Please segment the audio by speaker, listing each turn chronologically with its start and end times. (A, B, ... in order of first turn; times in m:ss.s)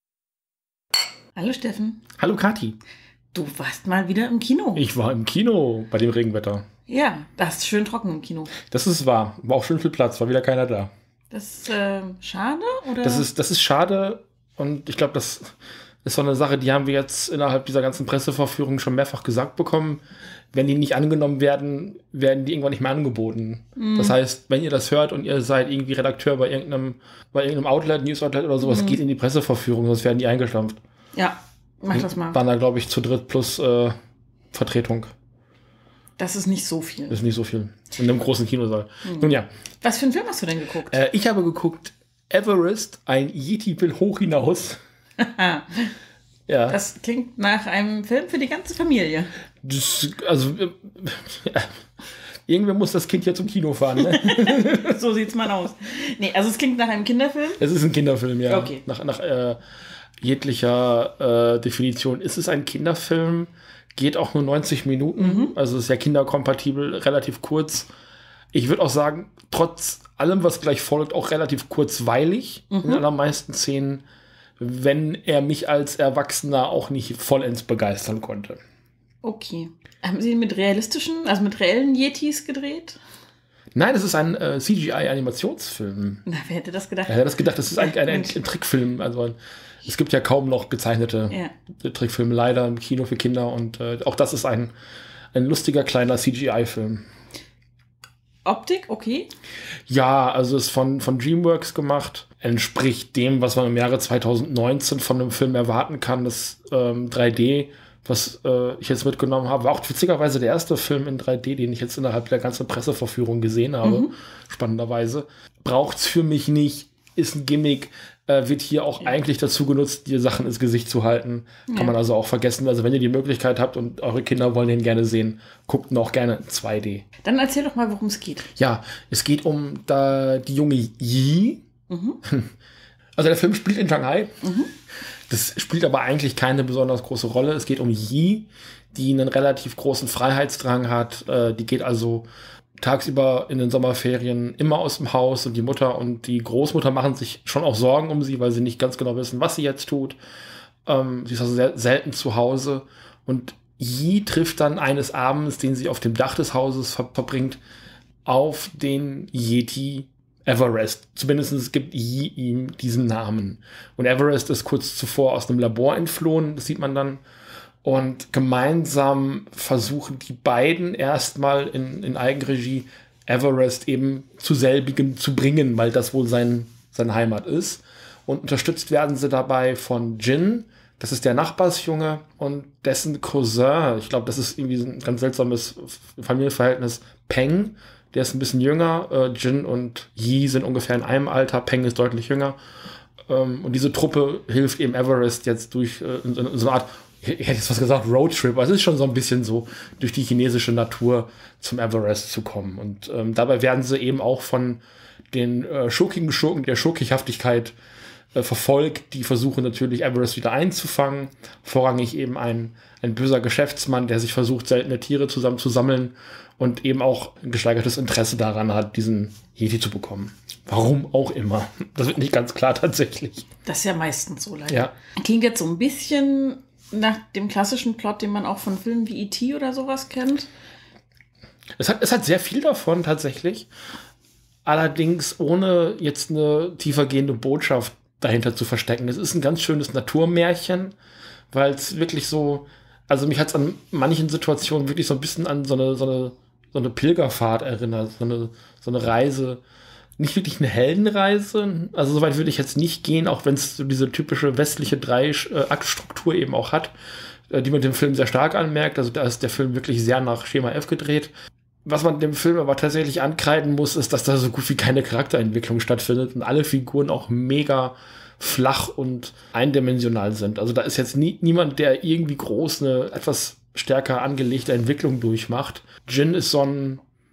0:01.4-0:02.0 A
0:02.2-0:02.8 B
0:03.3-0:04.8 A
0:04.8-0:06.7 B
0:06.9-0:08.5 A
0:08.7-0:10.9 B
0:11.3-0:13.3 A
0:13.0-0:15.5 B
0:16.0-0:30.8 B
0:23.8-0:24.2 A
0:28.6-0:29.0 A
0:31.2-0:32.4 A
0:32.0-0:34.0 B
0:34.5-0:35.1 B
0:36.2-0:37.2 A
0:37.1-0:39.5 B
0:39.0-0:41.0 A
0:40.9-0:44.8 B
0:45.2-0:45.9 A
0:46.5-0:46.8 B
0:46.7-0:49.3 A
0:49.6-0:51.7 B
0:52.5-0:54.9 B
0:54.1-0:57.6 A
0:57.6-0:59.6 B
0:58.5-0:58.8 A
1:00.2-1:07.9 B
1:05.2-1:05.6 A
1:08.5-1:14.0 B
1:12.7-1:13.0 A
1:14.6-1:18.6 B
1:19.2-1:23.0 A
1:23.8-1:26.2 B
1:26.3-1:27.2 A
1:27.1-1:34.7 B
1:27.7-1:28.4 A
1:35.3-1:37.1 B
1:38.4-1:39.3 A
1:39.9-2:07.1 B
1:53.8-1:54.1 A
2:01.7-2:02.0 A
2:07.2-2:08.5 A
2:08.6-2:11.7 B
2:11.9-2:12.2 A
2:12.2-2:12.5 B
2:13.2-2:14.4 B
2:14.4-2:14.7 A
2:15.3-2:22.3 B
2:22.8-2:30.2 B
2:30.9-2:37.6 B
2:38.3-2:47.2 B
2:47.8-3:12.6 B
3:13.3-3:27.7 B
3:28.4-3:43.5 B
3:43.6-3:50.5 A
3:44.7-3:44.9 B
3:51.8-3:53.7 B
3:54.6-4:00.9 B
4:01.5-4:09.6 B
4:10.2-4:16.9 B
4:17.5-4:21.3 B
4:21.9-4:37.0 B